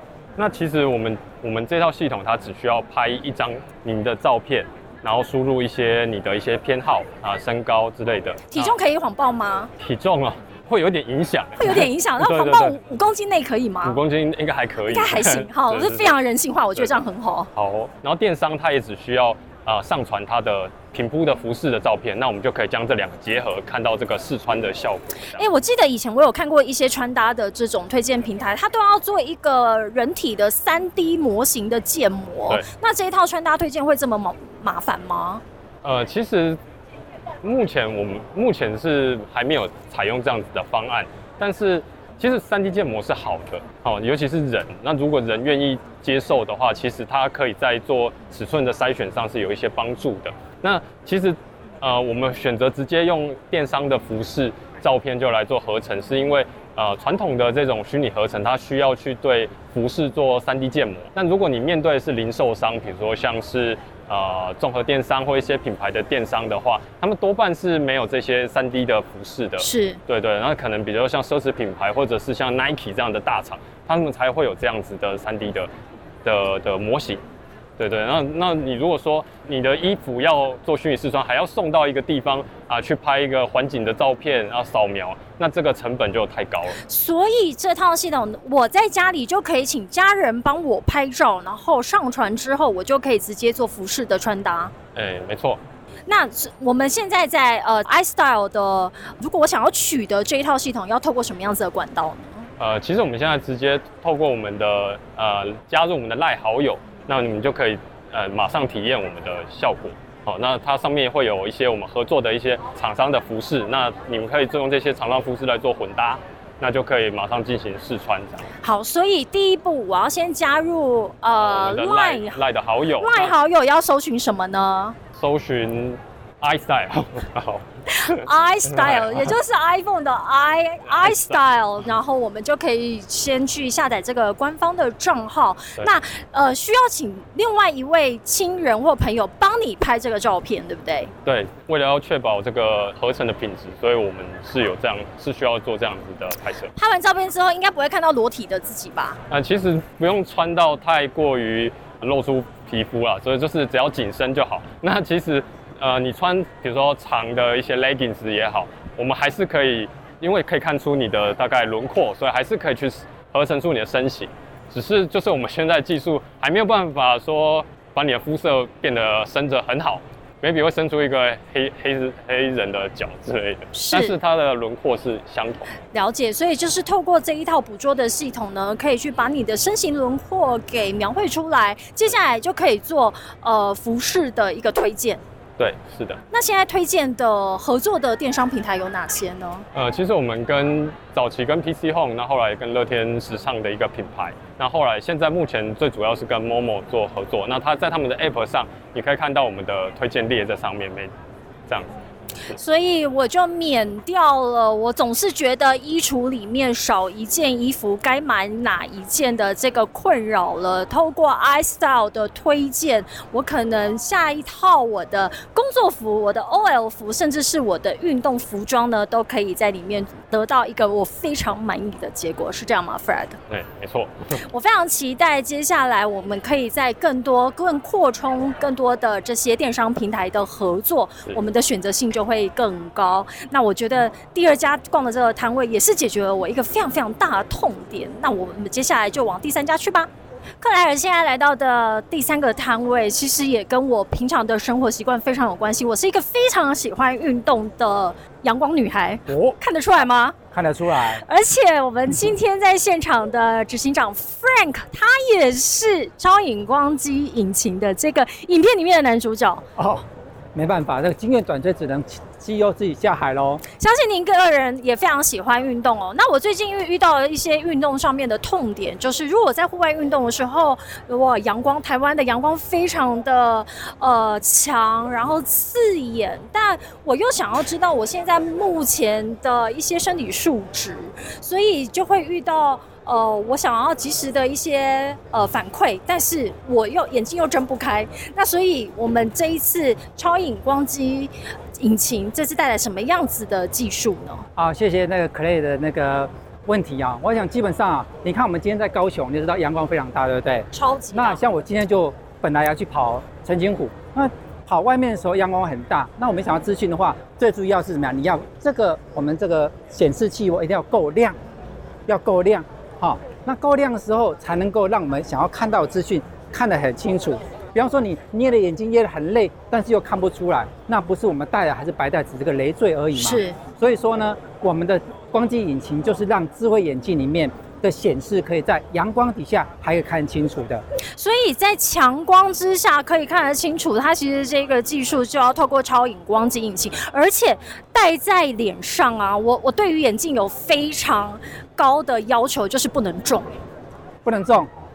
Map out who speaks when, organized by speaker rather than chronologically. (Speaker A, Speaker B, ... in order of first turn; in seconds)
Speaker A: 0.4-8.7, 9.8-12.8, 13.8-16.2, 17.6-25.5, 35.8-36.6, 37.4-75.7, 76.2-77.2, 77.8-86.8, 95.0-95.6, 102.6-118.5, 121.4-123.3, 125.2-129.3, 131.0-131.4, 141.2-146.7, 149.3-175.7, 185.6-186.2, 189.8-201.1, 223.5-224.4
Speaker B: 8.5-9.7, 11.6-14.0, 14.9-17.5, 25.4-35.4, 69.6-70.0, 86.8-94.7, 96.1-102.5, 118.6-122.4, 123.0-125.0, 128.0-141.1, 146.8-149.2, 173.7-174.2, 175.9-185.2, 186.3-189.7, 202.5-223.4, 224.5-240.1, 240.6-250.4, 251.2-259.6, 263.8-294.5, 300.7-301.4, 323.1-323.6, 331.2-343.5
Speaker C: 249.3-249.6, 250.5-251.2, 259.8-263.6, 294.6-311.4, 312.1-330.9, 344.2-344.7